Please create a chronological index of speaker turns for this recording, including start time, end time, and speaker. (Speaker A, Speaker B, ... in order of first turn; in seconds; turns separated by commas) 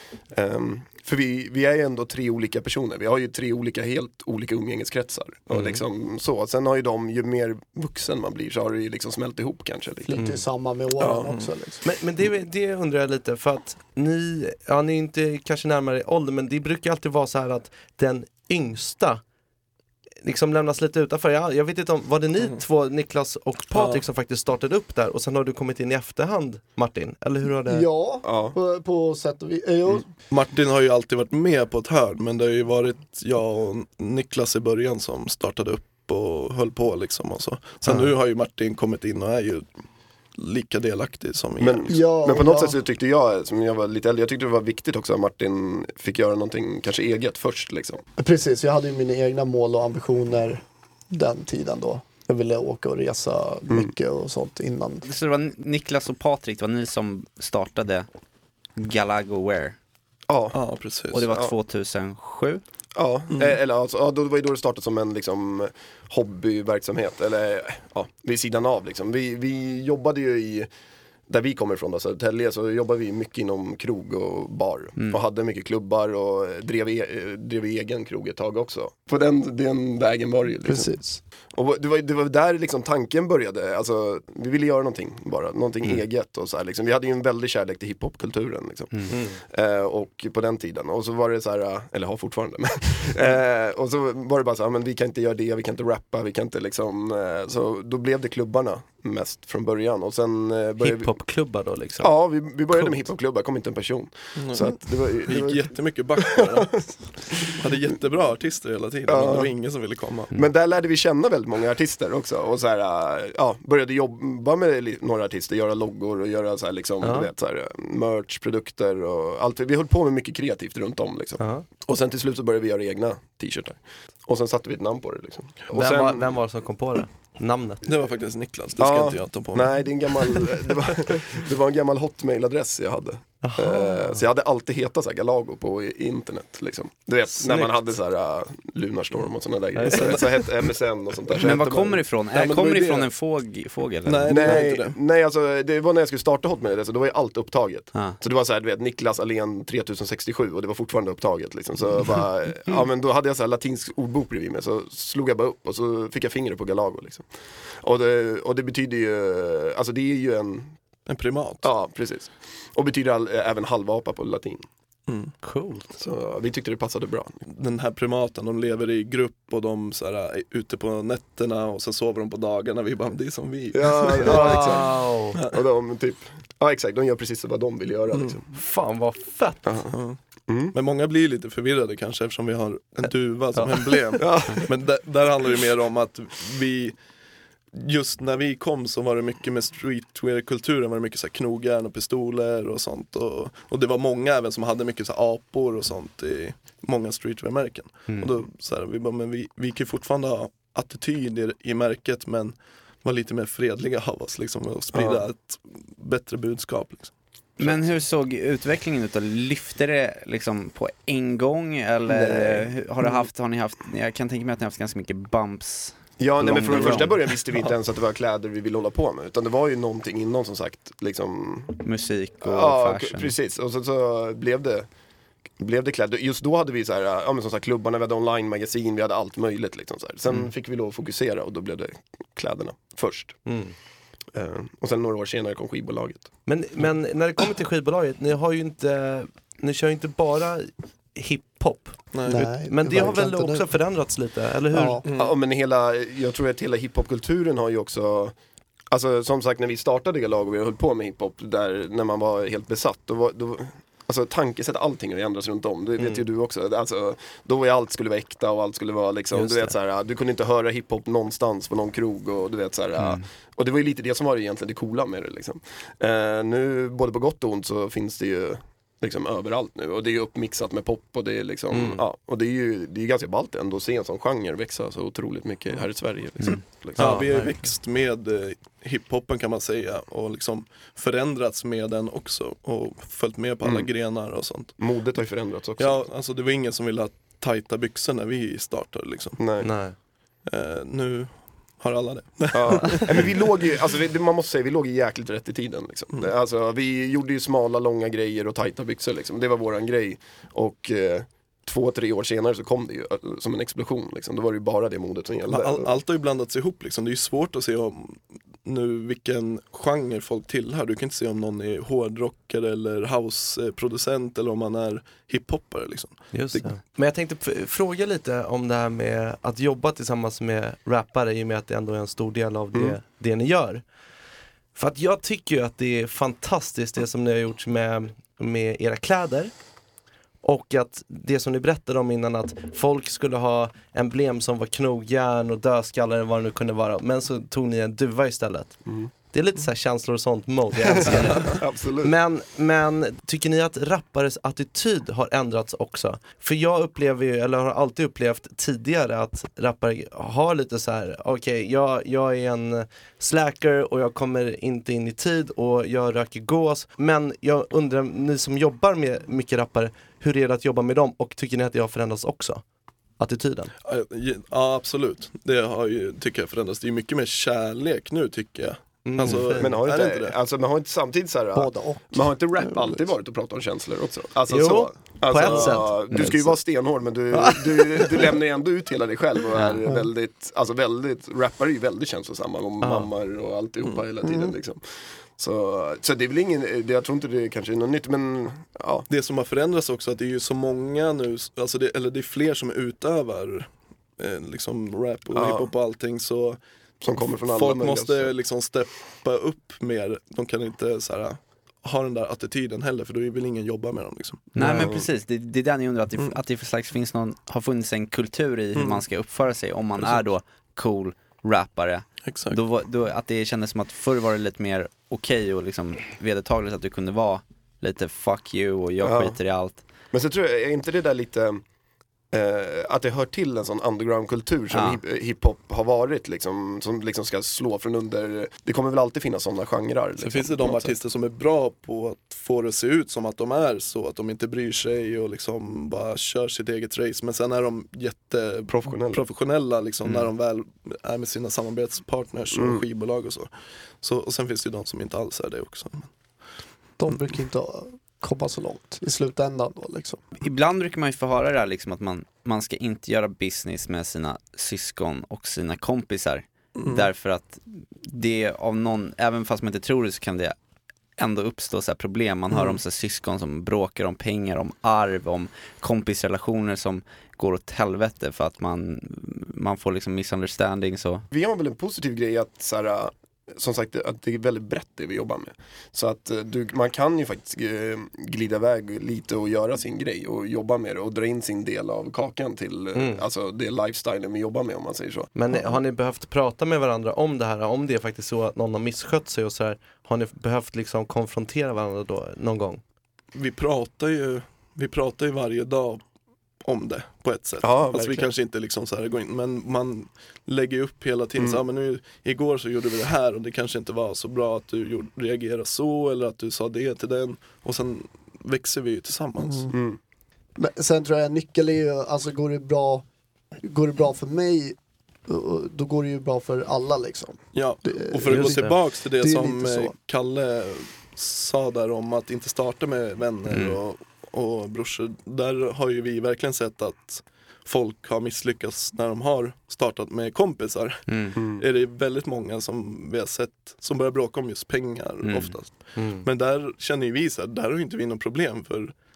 Speaker A: 0.3-10.2, Speaker B: 5.5-5.8, Speaker C: 10.1-11.8, Speaker B: 10.2-10.4, Speaker D: 11.0-11.5, Speaker B: 11.8-19.2, Speaker B: 20.2-27.9, Speaker D: 23.7-24.0, Speaker C: 27.7-30.1, Speaker A: 28.2-28.6, Speaker D: 30.3-39.7, Speaker D: 40.4-42.0, Speaker A: 41.6-48.0, Speaker C: 41.9-42.8, Speaker C: 48.2-55.0, Speaker E: 55.0-58.1, Speaker E: 58.8-59.8, Speaker A: 60.3-60.5, Speaker D: 60.5-61.3, Speaker E: 61.1-62.6, Speaker A: 61.2-61.5, Speaker A: 63.0-70.7, Speaker A: 71.3-81.0, Speaker C: 80.6-81.2, Speaker A: 81.5-101.1, Speaker B: 89.1-89.4, Speaker B: 100.8-102.1, Speaker A: 102.0-107.6, Speaker D: 104.3-110.3, Speaker A: 109.1-109.6, Speaker A: 110.3-126.3, Speaker B: 117.0-117.3, Speaker B: 121.4-121.6, Speaker B: 125.7-127.8, Speaker D: 127.8-130.4, Speaker A: 128.8-142.0, Speaker B: 133.4-134.2, Speaker B: 137.3-137.8, Speaker B: 139.8-140.4, Speaker D: 139.9-140.2, Speaker E: 141.4-144.6, Speaker D: 142.3-143.0, Speaker D: 144.0-145.0, Speaker A: 144.3-160.8, Speaker D: 161.1-161.7, Speaker A: 161.6-164.7, Speaker D: 165.1-165.3, Speaker B: 165.4-165.9, Speaker A: 166.0-167.4, Speaker D: 167.5-175.6, Speaker A: 173.7-178.4, Speaker B: 174.2-175.3, Speaker B: 178.5-179.7, Speaker A: 179.6-180.7, Speaker D: 179.9-180.2, Speaker D: 180.7-187.0, Speaker B: 183.5-183.8, Speaker A: 184.2-184.7, Speaker D: 187.7-207.1, Speaker B: 198.1-198.4, Speaker A: 204.9-205.2, Speaker E: 207.6-217.4, Speaker A: 212.1-212.7, Speaker A: 216.2-221.8, Speaker E: 221.8-223.3, Speaker A: 222.4-224.9, Speaker A: 225.6-233.4, Speaker B: 233.4-233.7, Speaker A: 234.3-236.3, Speaker B: 236.5-245.0, Speaker D: 242.1-242.4, Speaker C: 242.3-243.7, Speaker C: 244.7-245.1, Speaker D: 245.0-245.3, Speaker A: 245.2-248.3, Speaker A: 248.9-277.2, Speaker B: 256.0-256.2, Speaker B: 259.3-259.7, Speaker E: 262.9-263.2, Speaker B: 271.7-272.0, Speaker D: 276.9-284.8, Speaker B: 277.0-277.7, Speaker A: 283.6-284.1, Speaker A: 284.8-286.1, Speaker D: 285.8-289.4, Speaker A: 289.4-289.7, Speaker B: 289.6-289.9, Speaker D: 290.4-293.3, Speaker A: 292.5-305.9, Speaker D: 305.5-316.8, Speaker B: 316.3-323.8, Speaker B: 324.7-329.5, Speaker B: 330.4-338.8, Speaker A: 338.8-339.1, Speaker B: 339.3-362.6, Speaker A: 340.8-342.1, Speaker B: 363.2-363.7, Speaker D: 363.8-370.3, Speaker B: 369.0-369.8, Speaker A: 369.4-389.1, Speaker C: 371.5-373.0, Speaker B: 374.5-376.6, Speaker C: 375.5-375.7, Speaker B: 377.3-377.9, Speaker E: 379.6-379.8, Speaker C: 379.8-380.1, Speaker B: 382.8-383.1, Speaker C: 384.2-384.6, Speaker D: 389.1-404.5, Speaker A: 395.3-395.7, Speaker A: 397.0-398.3, Speaker E: 404.5-419.8, Speaker B: 404.6-404.9, Speaker A: 404.6-405.1, Speaker D: 408.7-409.1, Speaker D: 410.0-410.2, Speaker D: 412.2-412.6, Speaker A: 419.0-419.4, Speaker A: 420.1-421.6, Speaker A: 422.3-431.0, Speaker E: 424.7-425.0, Speaker D: 430.2-446.1, Speaker A: 438.7-439.2, Speaker A: 442.5-442.8, Speaker C: 447.0-450.2, Speaker E: 450.4-460.6, Speaker D: 456.8-457.1, Speaker E: 461.2-471.2, Speaker A: 471.3-485.3, Speaker B: 482.9-483.2, Speaker B: 485.3-492.8, Speaker D: 493.3-496.0, Speaker D: 496.6-509.7, Speaker A: 497.6-498.3, Speaker A: 501.4-501.6, Speaker C: 509.4-509.7, Speaker A: 509.7-510.0, Speaker C: 510.6-513.0, Speaker C: 513.6-519.9, Speaker D: 517.5-538.9, Speaker B: 518.3-518.8, Speaker E: 523.5-523.8, Speaker E: 531.1-531.4, Speaker A: 531.3-531.6, Speaker E: 535.2-535.6, Speaker B: 536.0-536.2